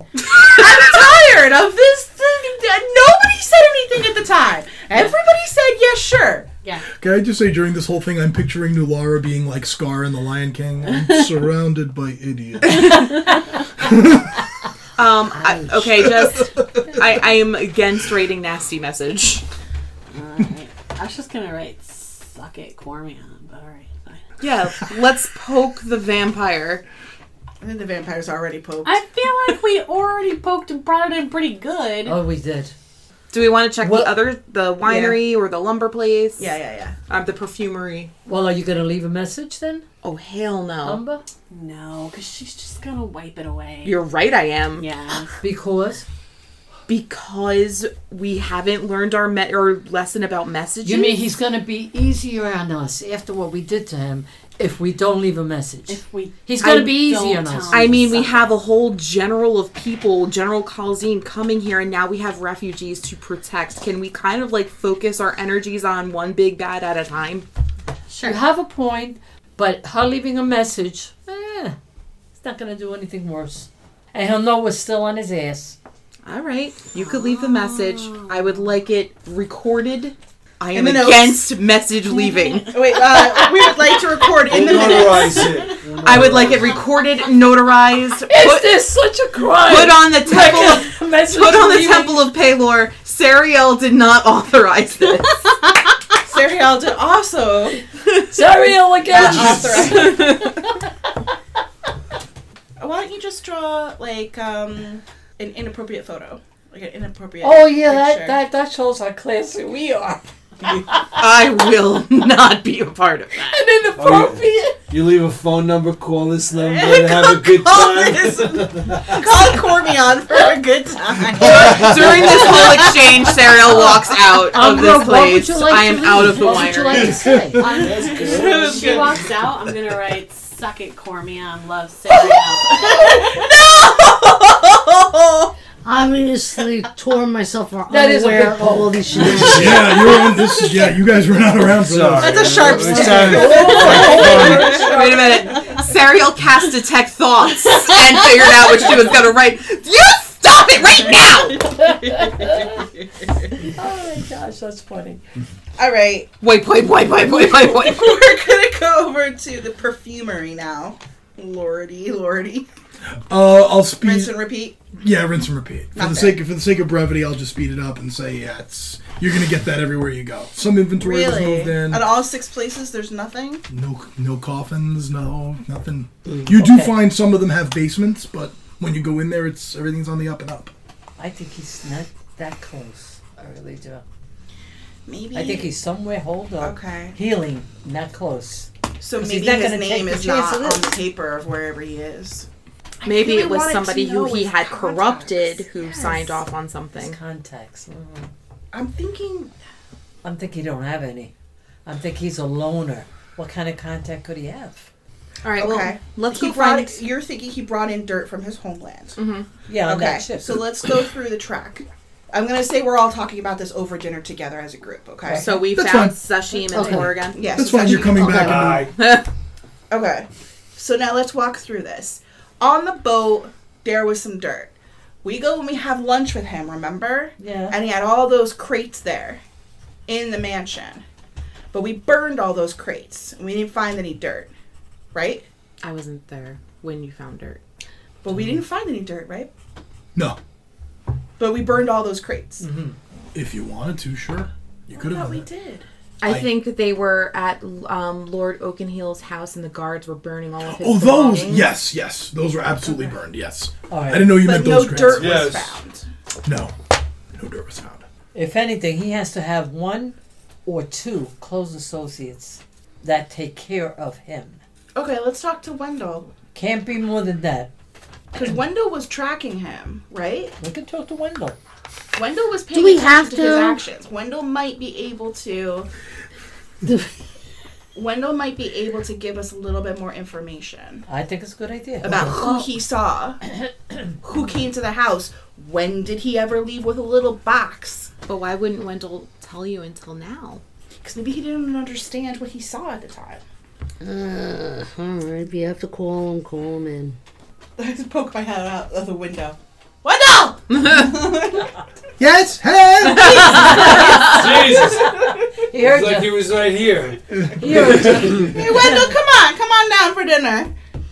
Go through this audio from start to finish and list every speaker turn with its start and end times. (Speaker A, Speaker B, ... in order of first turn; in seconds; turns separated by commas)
Speaker A: 0.1-6.5, Speaker B: 7.0-13.1, Speaker C: 10.9-11.3, Speaker C: 12.8-13.3, Speaker B: 13.8-14.3, Speaker D: 14.9-19.4, Speaker C: 20.1-24.2, Speaker D: 24.4-26.8, Speaker A: 27.6-29.0, Speaker C: 28.8-32.2, Speaker E: 32.0-32.7, Speaker D: 33.3-36.5, Speaker E: 33.8-34.2, Speaker A: 34.8-35.2, Speaker A: 36.4-36.9, Speaker D: 37.1-38.1, Speaker E: 38.2-39.9, Speaker D: 40.0-41.0, Speaker E: 40.8-41.2, Speaker C: 41.5-44.0, Speaker D: 43.8-44.9, Speaker C: 44.8-45.3, Speaker E: 45.4-46.0, Speaker D: 46.9-51.2, Speaker E: 50.8-57.9, Speaker C: 55.9-58.6, Speaker D: 57.7-67.5, Speaker E: 68.2-71.8, Speaker E: 72.3-75.8, Speaker D: 76.2-82.9, Speaker C: 76.9-78.6, Speaker A: 80.7-81.5, Speaker C: 82.1-85.8, Speaker A: 82.7-85.7, Speaker F: 84.5-86.8, Speaker D: 86.0-88.9, Speaker E: 88.3-92.3, Speaker D: 89.6-95.5, Speaker A: 96.2-97.8, Speaker E: 98.3-100.8, Speaker A: 99.0-100.5, Speaker D: 99.7-100.5, Speaker A: 102.8-108.4, Speaker E: 107.4-111.3, Speaker D: 111.2-113.6, Speaker E: 113.3-114.9, Speaker F: 114.0-119.4, Speaker A: 116.5-124.1, Speaker D: 121.4-127.3, Speaker F: 121.4-122.6, Speaker E: 123.9-127.7, Speaker F: 126.9-129.7, Speaker C: 127.5-133.3, Speaker A: 128.0-129.3, Speaker A: 132.1-135.5, Speaker G: 135.8-139.8, Speaker E: 137.9-139.7, Speaker F: 139.2-139.9, Speaker B: 139.2-142.8, Speaker A: 140.2-140.8, Speaker F: 141.6-144.8, Speaker A: 142.2-145.2, Speaker E: 142.7-145.8, Speaker D: 144.0-151.7, Speaker E: 151.6-152.8, Speaker A: 151.7-153.5, Speaker E: 153.6-155.2, Speaker A: 155.8-156.3, Speaker D: 156.4-158.2, Speaker A: 157.5-162.7, Speaker B: 163.3-164.3, Speaker A: 164.0-164.8, Speaker B: 164.9-172.1, Speaker A: 165.9-166.4, Speaker A: 171.0-173.6, Speaker B: 173.7-180.7, Speaker E: 176.2-177.0, Speaker E: 181.2-184.0, Speaker A: 185.1-185.7, Speaker E: 185.3-191.0, Speaker A: 186.6-187.2, Speaker A: 189.0-192.5, Speaker A: 193.0-196.4, Speaker D: 193.0-197.2, Speaker E: 196.9-198.3, Speaker A: 198.7-199.5, Speaker E: 200.2-201.3, Speaker E: 201.8-204.9, Speaker D: 205.4-207.0, Speaker A: 205.6-209.2, Speaker D: 209.2-209.5, Speaker E: 209.7-210.7, Speaker A: 209.8-215.5, Speaker E: 215.2-215.7, Speaker D: 215.3-217.5, Speaker B: 215.7-216.1, Speaker E: 216.7-217.2, Speaker G: 216.7-217.1, Speaker A: 217.3-218.6, Speaker B: 217.4-218.9, Speaker G: 218.1-218.6, Speaker F: 218.3-218.9, Speaker D: 219.0-219.2, Speaker A: 219.9-229.4, Speaker E: 227.4-227.8, Speaker A: 230.1-231.0, Speaker A: 231.7-234.5, Speaker A: 235.1-235.4, Speaker D: 235.8-237.6, Speaker A: 238.2-239.5, Speaker A: 241.4-242.6, Speaker E: 242.6-242.9, Speaker B: 243.3-245.5, Speaker A: 244.9-245.8, Speaker D: 246.2-251.7, Speaker B: 246.2-246.5, Speaker B: 250.7-255.4, Speaker E: 253.9-255.0, Speaker A: 254.4-256.1, Speaker F: 255.1-255.8, Speaker B: 256.4-256.7, Speaker B: 257.3-258.0, Speaker E: 258.3-264.6, Speaker A: 264.9-266.3, Speaker E: 266.5-267.7, Speaker A: 268.3-270.5, Speaker E: 270.6-271.6, Speaker A: 272.1-275.9, Speaker G: 272.7-273.8, Speaker G: 276.8-277.1, Speaker A: 277.9-281.1, Speaker E: 281.1-282.7, Speaker A: 282.0-283.4, Speaker E: 283.6-284.1, Speaker A: 284.2-288.1, Speaker D: 288.3-290.6, Speaker A: 291.0-293.4, Speaker G: 294.0-297.2, Speaker A: 297.8-301.7, Speaker B: 302.2-303.5, Speaker D: 303.0-304.5, Speaker A: 303.1-305.4, Speaker E: 303.4-305.1, Speaker F: 303.8-308.3, Speaker E: 305.7-306.5, Speaker B: 307.3-308.2, Speaker E: 307.6-309.1, Speaker A: 308.4-310.7